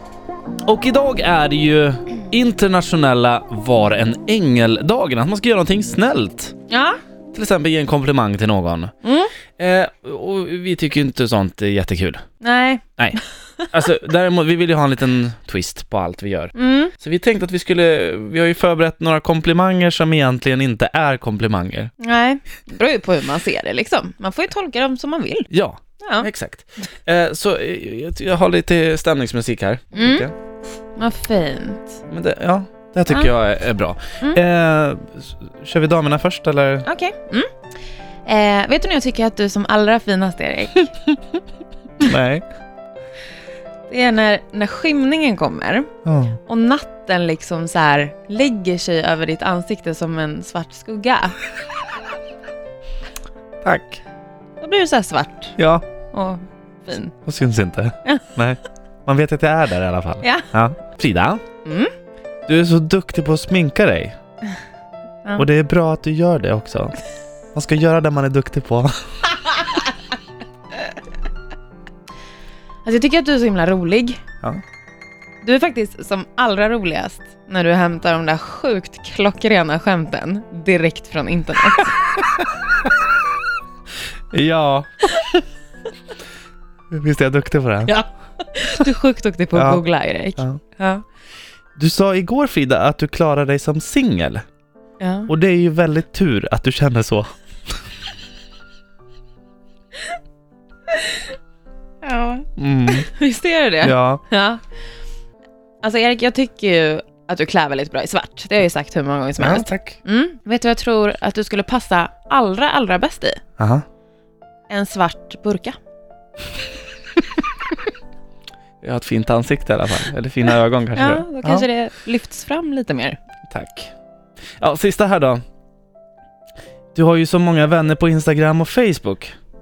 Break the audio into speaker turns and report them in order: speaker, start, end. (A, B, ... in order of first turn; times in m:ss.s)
0:00.6-0:06.5 A
0:06.7-0:07.0 B
0:07.3-0:08.9 A
0:09.0-0:09.3 B
0:09.6-0:12.2 A
0:12.4-0:13.7 B
0:13.7-0:21.9 A
0:16.6-0:16.9 B
0:22.0-0:25.5 B
0:25.5-0:30.3 A
0:26.0-0:26.3 B
0:29.9-0:30.3 B
0:31.0-0:32.0 B
0:32.1-0:36.9 A
0:36.8-0:37.5 B
0:38.2-0:40.9 B
0:42.0-0:42.4 A
0:43.9-0:45.9 B
0:46.0-0:46.4 A
0:46.4-0:51.4 B
0:53.6-0:54.0 A
0:54.6-0:55.5 B
0:55.6-0:55.8 A
0:56.1-0:57.1 B
0:57.2-1:01.4 A
1:00.2-1:00.5 B
1:01.6-1:01.9 B
1:02.5-1:04.2 A
1:05.4-1:07.0 A
1:07.5-1:08.9 A
1:12.8-1:14.2 B
1:15.4-1:22.0 B
1:24.3-1:25.3 A
1:26.9-1:28.0 A
1:27.8-1:31.0 B
1:29.5-1:29.8 A
1:31.8-1:34.4 A
1:35.0-1:35.3 B
1:35.3-1:37.3 A
1:40.9-1:41.2 B
1:42.0-1:44.6 B
1:42.6-1:43.1 A
1:43.8-1:44.2 A
1:45.8-1:53.4 B
1:49.4-1:50.0 A
1:53.6-1:53.8 A
1:54.7-1:55.8 B
1:58.8-2:01.6 A
2:00.9-2:03.2 B
2:03.5-2:03.9 A
2:04.6-2:05.4 A
2:06.9-2:09.3 A